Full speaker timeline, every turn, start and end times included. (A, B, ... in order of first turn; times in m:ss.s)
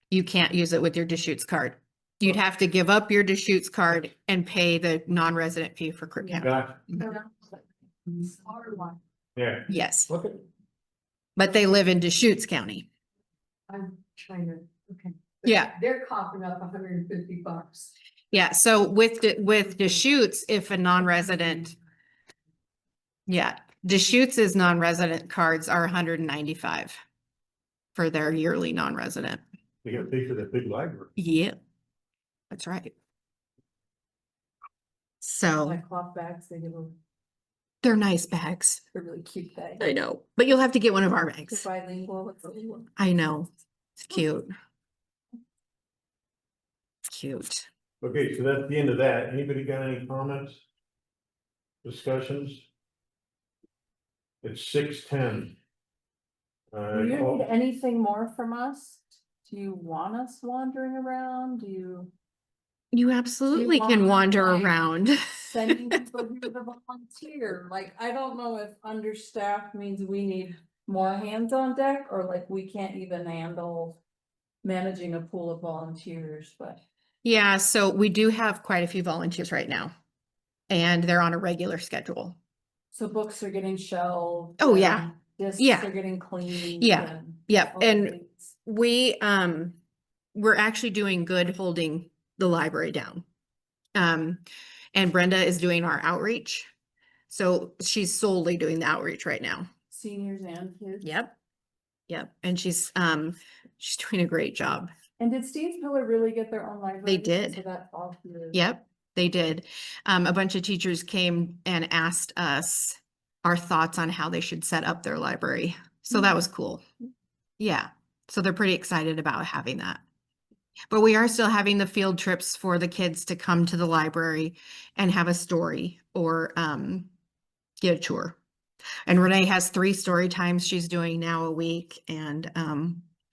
0:00.1-0:07.0 A
0:06.4-0:07.0 B
0:07.0-0:09.0 C
0:09.4-0:10.4 B
0:09.7-0:10.1 A
0:11.4-0:12.8 A
0:13.7-0:17.9 C
0:15.4-0:15.7 A
0:18.3-0:21.7 A
0:23.3-0:27.0 A
0:27.9-0:29.4 A
0:29.8-0:31.1 B
0:31.2-0:31.6 A
0:32.5-0:32.9 A
0:35.2-0:35.8 A
0:35.6-0:37.0 D
0:37.8-0:38.8 A
0:38.9-0:39.9 D
0:39.8-0:41.7 A
0:41.5-0:42.9 D
0:43.0-0:43.5 A
0:44.0-0:44.5 A
0:47.1-0:47.7 A
0:48.0-0:50.6 B
0:51.8-0:52.7 B
0:54.4-0:55.6 B
0:56.7-0:57.4 B
0:56.9-1:02.1 D
1:02.9-1:05.8 A
1:03.5-1:04.7 D
1:05.4-1:14.0 D
1:14.6-1:16.8 D
1:17.2-1:19.9 A
1:20.7-1:22.4 A
1:22.9-1:28.5 D
1:24.6-1:25.9 A
1:26.8-1:29.8 A
1:30.3-1:33.2 A
1:33.9-1:34.4 A
1:34.9-1:36.7 A
1:37.3-1:39.7 A
1:39.9-1:41.1 D
1:41.0-1:41.4 A
1:42.1-1:44.9 A
1:45.2-1:48.6 D
1:47.0-1:47.6 A
1:48.5-1:56.8 A
1:57.6-2:00.0 A
2:00.9-2:07.1 A
2:07.8-2:08.4 A
2:09.1-2:13.0 A